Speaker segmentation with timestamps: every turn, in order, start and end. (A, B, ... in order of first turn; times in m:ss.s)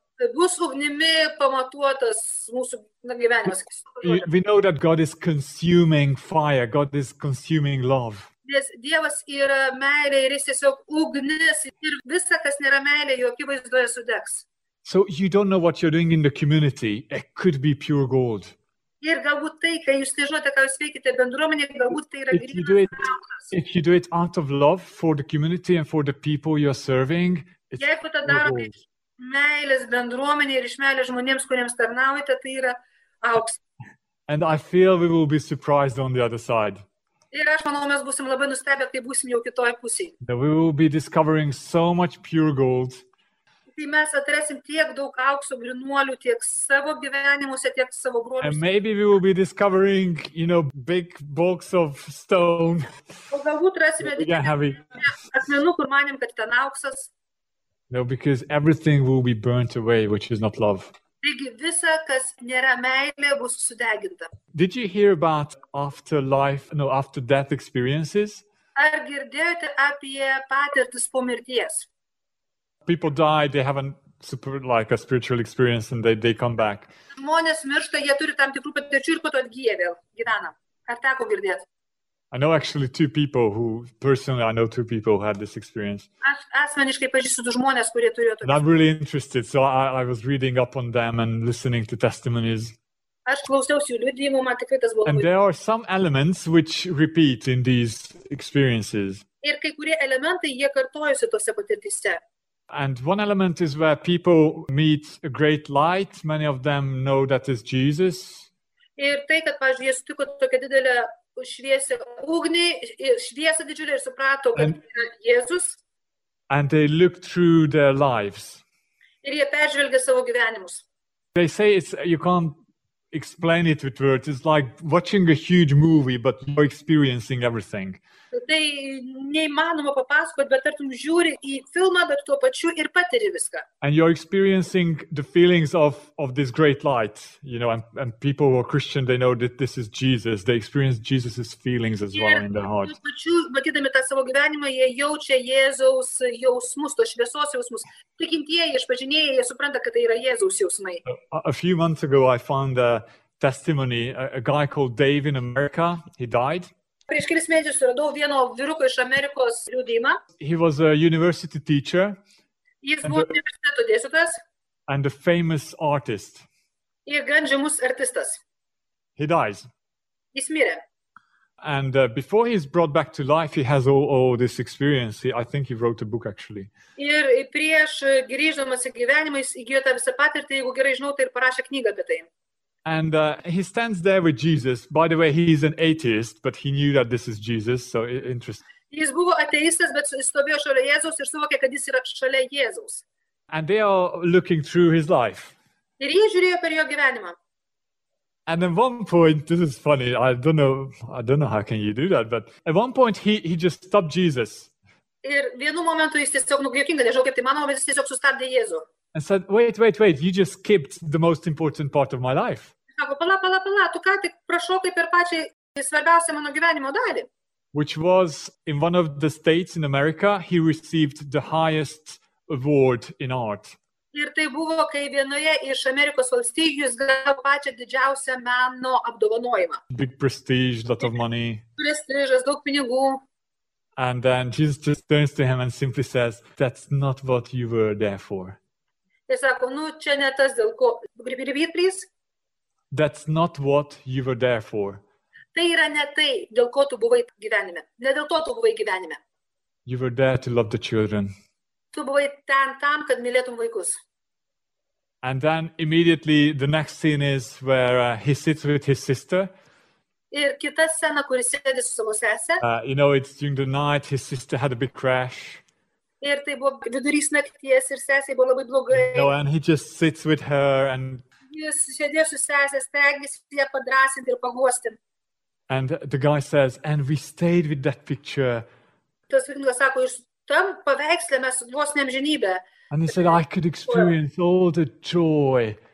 0:00.2-0:04.2 A
0:04.0-0:08.3 B
0:08.4-0:14.4 A
0:14.8-0:18.5 B
0:19.0-0:23.5 A
0:22.3-0:28.8 B
0:27.8-0:33.6 A
0:34.3-0:36.8 B
0:37.3-0:40.1 A
0:40.2-0:43.0 B
0:43.7-0:48.6 A
0:48.4-0:52.9 B
0:53.3-0:57.1 A
0:54.0-0:54.8 B
0:57.9-1:00.9 B
1:01.2-1:04.3 A
1:04.5-1:08.4 B
1:08.8-1:11.9 A
1:12.8-1:16.9 B
1:17.1-1:21.6 A
1:22.3-1:26.1 B
1:26.2-1:28.6 A
1:28.4-1:32.8 B
1:33.2-1:35.3 A
1:35.0-1:39.2 B
1:39.4-1:42.2 A
1:42.7-1:48.5 B
1:49.0-1:55.8 A
1:56.5-1:58.6 B
1:59.2-2:00.8 A
2:01.3-2:02.6 B
2:03.1-2:08.0 B
2:08.3-2:13.6 A
2:13.8-2:23.0 B
2:22.1-2:31.0 A
2:31.0-2:36.7 B
2:37.1-2:40.2 A
2:40.4-2:42.2 B
2:42.8-2:44.4 A
2:43.0-2:43.3 B
2:44.9-2:46.4 B
2:47.0-2:48.4 A
2:49.2-2:49.7 B
2:50.3-2:50.8 A
2:51.6-2:56.7 B
2:57.0-3:02.3 A
3:02.8-3:08.6 B
3:08.9-3:13.0 A
3:13.5-3:15.5 B
3:16.0-3:17.4 A
3:18.5-3:24.7 B
3:25.2-3:28.8 A
3:29.1-3:32.7 B
3:33.0-3:37.3 A
3:37.7-3:43.8 B
3:44.1-3:49.8 A
3:49.9-3:51.6 B
3:51.8-3:53.2 A
3:54.0-3:58.6 B
3:59.3-4:02.1 A
4:02.9-4:05.0 B
4:05.5-4:09.2 A
4:09.8-4:11.3 B
4:11.9-4:14.0 A
4:15.2-4:19.5 B
4:20.3-4:22.6 A
4:22.6-4:25.6 B
4:26.2-4:29.3 A
4:28.9-4:31.2 B
4:31.5-4:35.0 A
4:35.7-4:38.6 B
4:39.3-4:44.1 A
4:42.9-4:45.8 B